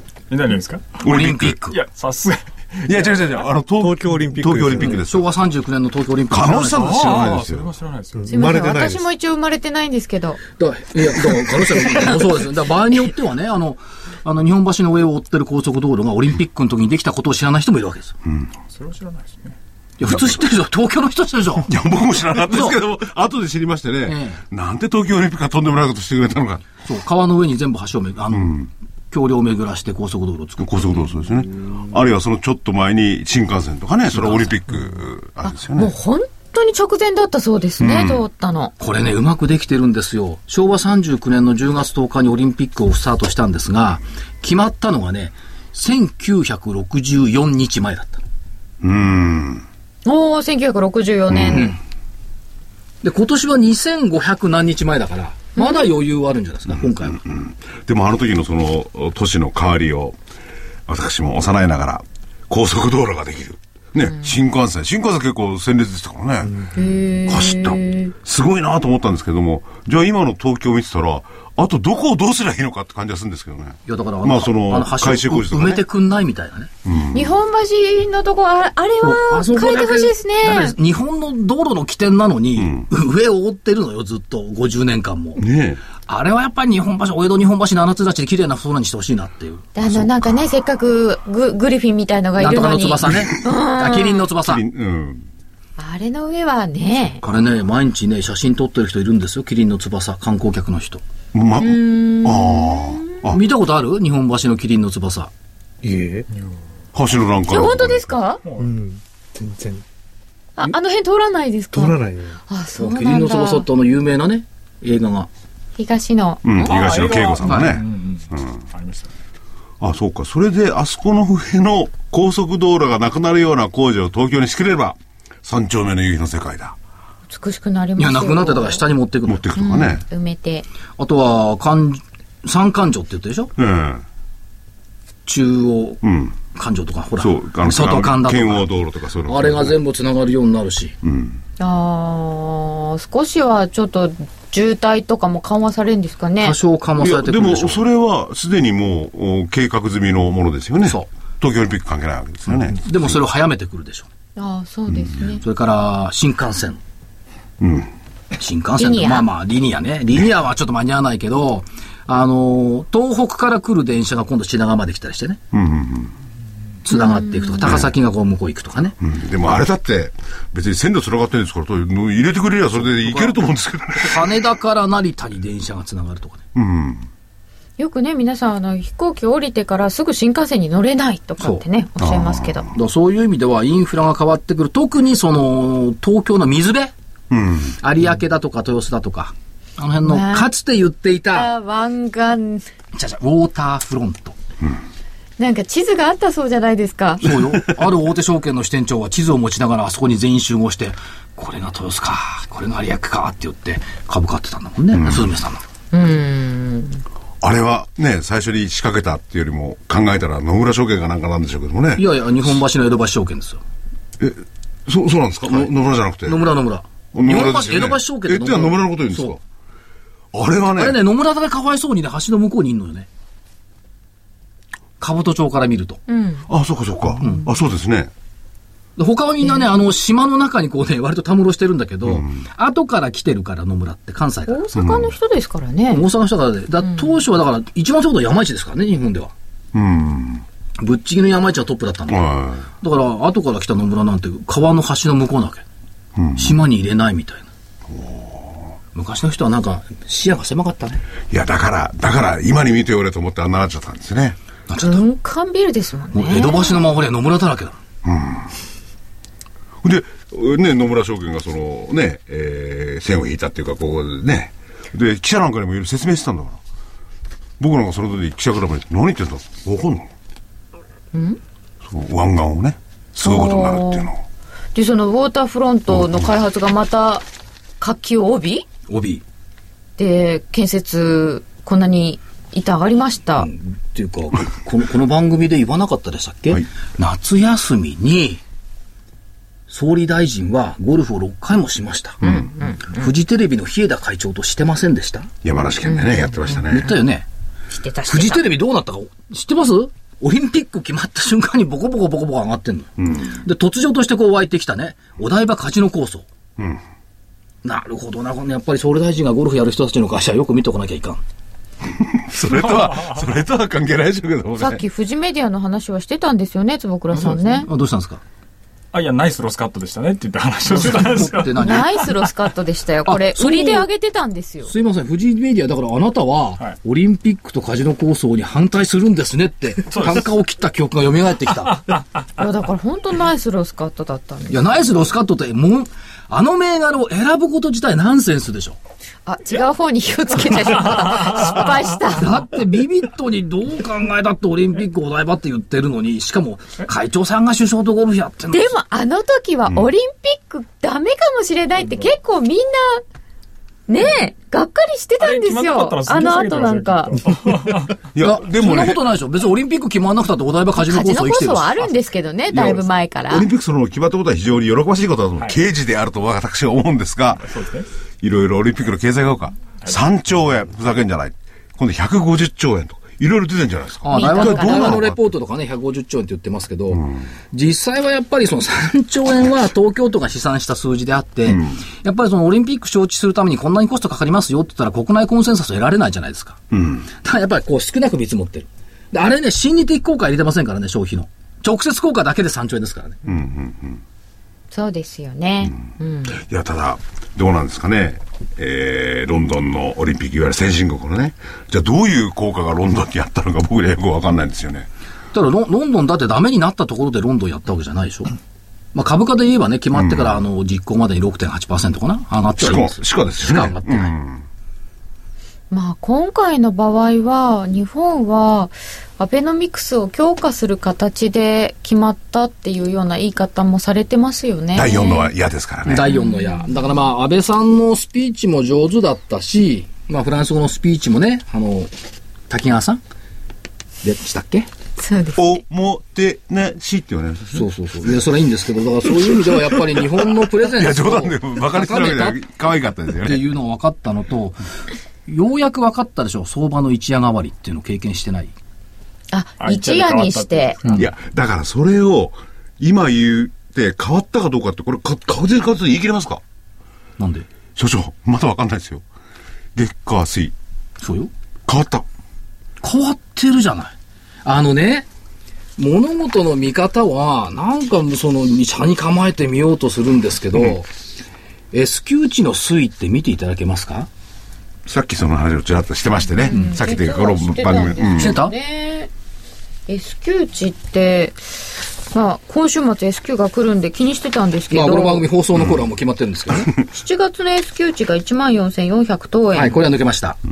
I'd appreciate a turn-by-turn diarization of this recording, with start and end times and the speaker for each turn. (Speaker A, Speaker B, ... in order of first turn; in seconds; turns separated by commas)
Speaker A: 0.3-1.0, Speaker B: 1.0-1.6, Speaker C: 1.0-1.8, Speaker A: 1.7-3.5, Speaker B: 2.8-5.3, Speaker D: 3.8-5.0, Speaker C: 4.9-7.2, Speaker B: 6.3-7.7, Speaker A: 6.7-8.2, Speaker D: 8.1-9.1, Speaker E: 8.3-10.4, Speaker C: 10.6-18.2, Speaker A: 18.7-19.6, Speaker C: 20.0-21.7, Speaker B: 20.0-20.4, Speaker B: 21.6-26.7, Speaker C: 22.4-22.8, Speaker C: 24.1-24.4, Speaker C: 26.8-28.6, Speaker B: 28.3-28.7, Speaker C: 29.1-31.0, Speaker B: 30.6-35.9, Speaker C: 34.1-34.6, Speaker E: 35.7-38.7, Speaker B: 37.8-38.2, Speaker C: 38.8-48.2, Speaker B: 48.8-49.6, Speaker E: 50.0-51.8, Speaker C: 51.4-51.8, Speaker C: 53.0-57.2, Speaker E: 55.6-55.9, Speaker B: 56.7-60.2, Speaker B: 60.9-66.7, Speaker E: 66.7-68.1, Speaker B: 67.3-75.8, Speaker C: 73.9-76.7, Speaker B: 76.8-77.3, Speaker E: 77.1-80.8, Speaker C: 79.0-85.4, Speaker B: 82.6-82.8, Speaker B: 85.4-85.8, Speaker C: 86.0-89.7, Speaker E: 89.8-94.3, Speaker B: 89.8-90.4, Speaker C: 92.4-94.6, Speaker B: 93.0-93.3, Speaker B: 94.4-95.2, Speaker E: 95.8-97.2, Speaker C: 97.2-101.0, Speaker B: 101.3-103.4, Speaker E: 101.6-103.3, Speaker C: 103.3-105.3, Speaker D: 105.8-106.3, Speaker B: 106.9-108.0, Speaker E: 107.5-108.4, Speaker A: 108.4-108.7, Speaker D: 108.6-109.8, Speaker E: 110.6-112.0, Speaker D: 111.7-112.4, Speaker E: 112.5-113.7, Speaker C: 112.8-115.3, Speaker E: 115.8-116.7, Speaker B: 116.4-118.6, Speaker A: 116.6-119.1, Speaker C: 117.4-117.8, Speaker B: 119.8-126.8, Speaker E: 127.3-128.8, Speaker C: 128.0-129.4, Speaker B: 129.3-130.0, Speaker E: 129.6-130.7, Speaker C: 131.0-133.5, Speaker B: 133.6-134.0, Speaker C: 135.2-138.7, Speaker B: 136.0-136.3, Speaker B: 137.2-139.8, Speaker C: 139.3-140.9, Speaker B: 141.0-141.4, Speaker E: 141.6-146.6, Speaker C: 146.4-147.8, Speaker B: 147.0-153.2, Speaker C: 152.8-154.1, Speaker E: 154.3-155.4, Speaker C: 155.4-156.8, Speaker B: 157.6-157.9, Speaker C: 158.4-165.4, Speaker E: 158.8-159.3, Speaker B: 165.5-166.1, Speaker C: 166.8-169.0, Speaker E: 166.9-167.8, Speaker B: 169.0-174.4, Speaker C: 172.8-173.3, Speaker C: 174.0-176.4, Speaker B: 176.5-177.1, Speaker E: 177.8-182.7, Speaker B: 182.0-182.7, Speaker C: 182.7-186.9, Speaker B: 187.3-187.8, Speaker C: 187.8-191.5, Speaker E: 190.0-190.5, Speaker E: 191.3-192.7, Speaker C: 192.9-194.3, Speaker E: 195.4-197.3, Speaker C: 197.2-205.6, Speaker B: 197.3-197.7, Speaker B: 204.9-205.3, Speaker E: 205.9-207.0, Speaker B: 207.4-212.1, Speaker C: 212.0-213.6, Speaker B: 214.2-216.4, Speaker C: 215.4-215.7, Speaker C: 216.2-219.4, Speaker B: 217.1-219.4, Speaker B: 220.3-221.0, Speaker C: 220.8-223.1, Speaker C: 225.0-226.0, Speaker E: 226.1-226.5, Speaker B: 226.5-228.1, Speaker C: 229.0-234.7, Speaker B: 232.1-232.3, Speaker E: 234.5-236.0, Speaker B: 234.7-235.2, Speaker C: 235.9-239.3, Speaker B: 239.7-240.4, Speaker C: 240.8-245.6, Speaker B: 242.1-242.7, Speaker B: 246.2-246.6, Speaker C: 246.3-247.5, Speaker B: 247.9-248.7, Speaker C: 248.9-251.0, Speaker B: 251.3-254.4, Speaker C: 254.7-255.0, Speaker E: 254.8-256.8, Speaker C: 256.1-257.8, Speaker B: 258.0-258.5, Speaker B: 259.8-266.6, Speaker B: 267.6-270.1, Speaker E: 271.1-271.4, Speaker B: 271.9-274.2, Speaker E: 273.1-274.1, Speaker E: 274.8-277.2, Speaker B: 275.9-276.3, Speaker E: 277.8-278.6, Speaker C: 278.9-279.2, Speaker E: 280.0-283.5, Speaker C: 283.4-288.4, Speaker C: 289.7-292.2, Speaker B: 292.2-292.5, Speaker E: 292.2-293.0, Speaker C: 292.8-295.3, Speaker B: 295.4-296.9, Speaker E: 295.9-296.6, Speaker C: 296.7-297.2, Speaker E: 297.7-298.4, Speaker C: 298.1-306.2, Speaker B: 303.0-303.4, Speaker C: 307.6-311.2, Speaker B: 312.1-314.8, Speaker A: 312.5-313.2, Speaker E: 314.6-317.7, Speaker C: 317.1-318.2, Speaker A: 318.9-322.1, Speaker C: 320.6-321.9, Speaker E: 321.6-324.7, Speaker C: 323.1-323.9, Speaker C: 324.6-331.8, Speaker A: 329.9-330.3, Speaker E: 332.4-335.0, Speaker C: 334.5-338.8, Speaker E: 339.2-342.3, Speaker C: 342.1-348.8, Speaker E: 348.5-353.0, Speaker A: 351.9-352.1, Speaker E: 353.9-357.2, Speaker A: 355.2-357.9, Speaker B: 358.1-359.0, Speaker C: 358.2-361.9, Speaker E: 360.8-363.5, Speaker B: 362.5-367.6, Speaker A: 367.4-367.9, Speaker B: 368.2-375.2, Speaker C: 374.0-386.6, Speaker E: 374.1-375.1, Speaker B: 381.5-381.8, Speaker B: 386.7-387.1, Speaker C: 387.1-393.2, Speaker B: 393.2-394.0, Speaker E: 394.7-396.4, Speaker B: 396.3-404.9, Speaker C: 405.3-408.3, Speaker C: 408.9-414.1, Speaker B: 409.9-410.4, Speaker B: 412.6-414.4, Speaker E: 415.7-425.3, Speaker B: 424.7-426.1, Speaker C: 425.9-431.9, Speaker E: 426.1-426.9, Speaker C: 432.5-433.0, Speaker C: 434.0-434.7, Speaker E: 435.0-435.6, Speaker B: 435.4-437.7, Speaker C: 437.5-442.4, Speaker B: 439.3-439.8, Speaker B: 440.6-443.4, Speaker C: 443.2-444.6, Speaker C: 445.3-448.5, Speaker E: 449.3-450.8, Speaker A: 449.6-451.0, Speaker B: 450.9-456.4, Speaker C: 457.2-457.4, Speaker B: 457.8-459.0, Speaker B: 459.8-460.5, Speaker C: 461.0-461.3, Speaker B: 461.7-462.1, Speaker C: 462.8-463.9, Speaker C: 464.4-465.1, Speaker C: 465.8-470.9, Speaker C: 471.7-474.1, Speaker B: 474.9-478.4, Speaker E: 476.4-479.1, Speaker C: 476.5-476.7, Speaker C: 478.2-478.5, Speaker E: 479.9-485.2, Speaker C: 484.7-486.7, Speaker E: 486.9-489.8, Speaker C: 489.5-490.4